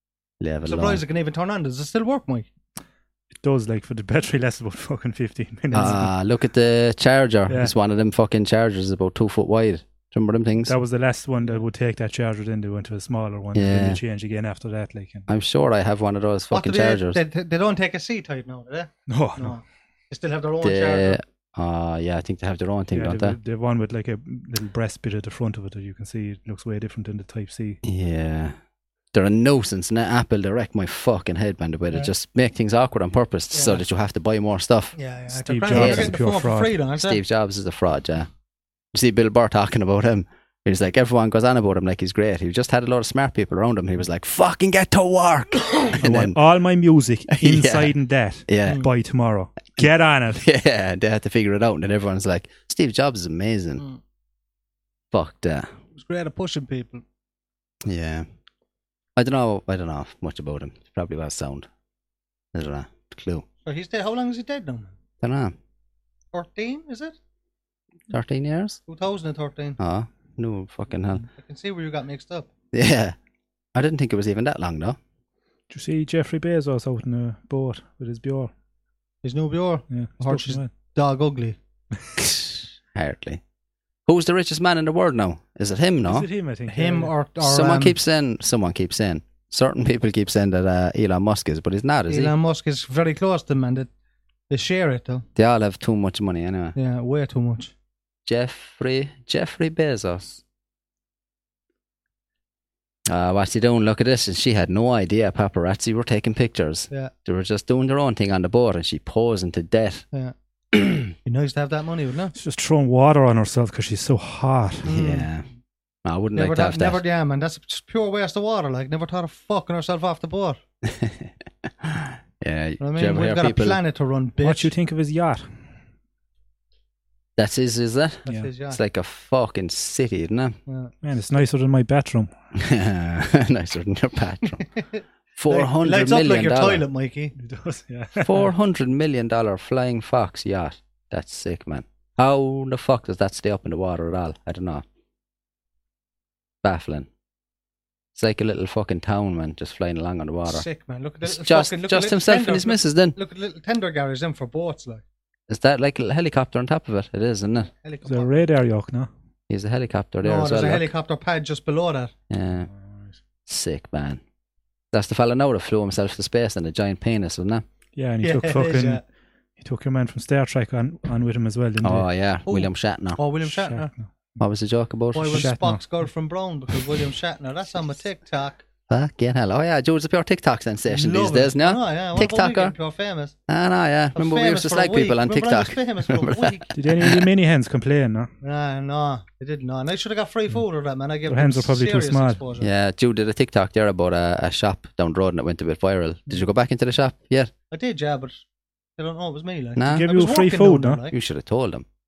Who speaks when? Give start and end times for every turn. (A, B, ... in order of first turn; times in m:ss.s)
0:00.4-0:01.0 A
0:00.6-0:02.5 B
0:03.4-0:06.1 C
0:05.7-0:10.7 A
0:07.5-0:07.7 C
0:10.6-0:15.3 C
0:13.5-0:14.0 A
0:15.3-0:17.2 A
0:16.5-0:21.2 B
0:19.1-0:19.6 C
0:20.6-0:23.4 A
0:22.9-0:27.8 C
0:27.8-0:28.5 A
0:29.1-0:34.9 A
0:33.5-0:33.8 B
0:35.0-0:37.2 B
0:35.3-0:36.7 C
0:35.7-0:36.1 A
0:37.0-0:38.3 A
0:38.9-0:46.4 A
0:46.0-0:50.4 C
0:47.3-0:47.9 A
0:48.5-0:48.8 A
0:50.4-0:53.8 A
0:55.1-0:55.7 A
0:55.9-0:57.0 B
0:57.8-0:58.2 A
0:59.2-1:01.7 A
1:02.5-1:03.4 A
1:03.6-1:04.9 B
1:05.2-1:05.5 A
1:06.3-1:07.1 B
1:08.1-1:08.8 A
1:08.9-1:09.8 B
1:09.8-1:11.2 A
1:11.3-1:12.5 B
1:12.7-1:13.2 A
1:13.7-1:15.0 A
1:15.7-1:18.5 C
1:19.2-1:21.6 B
1:19.9-1:20.7 C
1:22.2-1:23.4 A
1:24.0-1:26.3 A
1:26.0-1:27.1 C
1:26.7-1:28.0 B
1:27.4-1:32.3 A
1:32.1-1:33.9 B
1:34.5-1:35.2 B
1:35.4-1:36.7 A
1:36.7-1:37.7 B
1:38.2-1:40.4 A
1:43.1-1:50.0 A
1:50.7-1:51.1 A
1:51.2-1:52.3 B
1:52.3-1:54.9 C
1:54.8-1:55.3 B
1:54.9-1:55.5 A
1:56.0-1:57.0 A
1:56.3-2:00.6 B
2:00.8-2:03.8 A
2:02.8-2:04.7 B
2:04.4-2:05.5 C
2:07.4-2:10.6 A
2:08.2-2:08.8 B
2:10.7-2:10.9 B
2:11.0-2:12.3 C
2:12.5-2:14.6 A
2:14.8-2:17.3 B
2:15.4-2:16.8 A
2:17.4-2:18.5 C
2:18.2-2:24.8 A
2:26.6-2:27.1 A
2:28.1-2:30.6 A
2:30.5-2:35.0 B
2:31.2-2:33.2 A
2:35.5-2:37.7 A
2:37.7-2:38.3 B
2:38.0-2:39.1 C
2:39.5-2:40.9 A
2:40.2-2:42.1 B
2:42.3-2:42.7 A
2:42.8-2:43.2 C
2:43.4-2:44.2 A
2:44.9-2:47.6 A
2:48.0-2:49.0 C
2:48.2-2:49.0 B
2:49.6-2:52.1 C
2:51.8-2:53.2 A
2:52.5-2:53.9 B
2:53.4-2:54.1 C
2:54.4-2:55.5 A
2:55.1-2:58.7 B
2:55.3-2:55.8 C
2:58.9-3:02.7 A
3:00.9-3:03.3 B
3:03.5-3:07.2 A
3:04.1-3:06.7 B
3:06.7-3:08.3 C
3:08.4-3:12.7 B
3:11.3-3:12.4 C
3:12.6-3:17.5 A
3:17.7-3:18.4 B
3:19.0-3:21.2 B
3:19.8-3:20.0 A
3:19.8-3:21.0 C
3:21.1-3:21.8 A